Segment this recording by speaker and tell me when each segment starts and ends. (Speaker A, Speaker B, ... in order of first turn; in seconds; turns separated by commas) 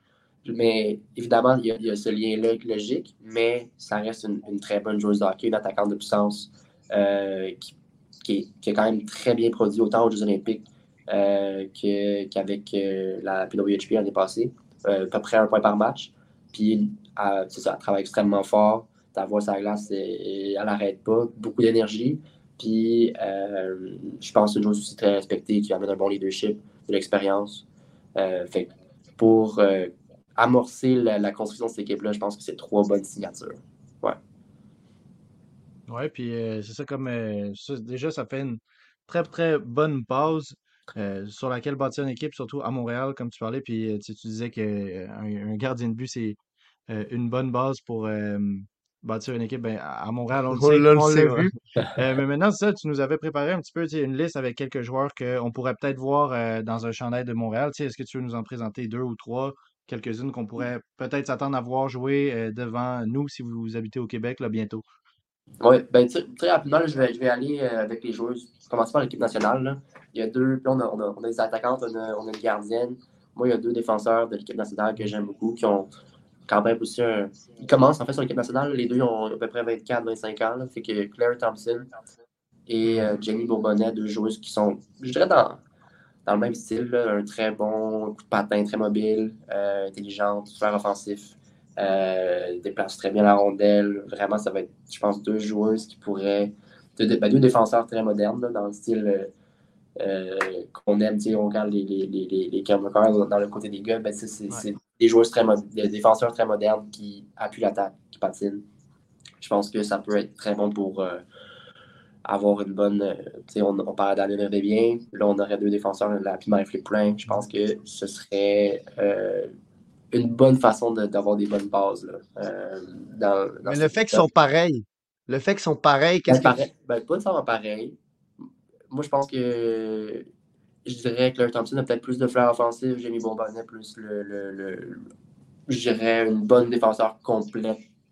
Speaker A: 0.4-34.2, Speaker B: 35.9-46.4, Speaker B: 46.9-64.8, Speaker C: 50.5-51.5, Speaker A: 65.6-75.9, Speaker A: 76.5-81.9, Speaker A: 82.7-85.6, Speaker B: 82.8-83.1, Speaker A: 86.2-99.3, Speaker A: 100.0-108.6, Speaker A: 109.4-111.2, Speaker A: 112.2-119.5, Speaker A: 120.1-124.2, Speaker C: 123.6-126.5, Speaker A: 126.3-128.0, Speaker A: 128.9-130.3, Speaker A: 130.8-135.1, Speaker A: 135.7-137.8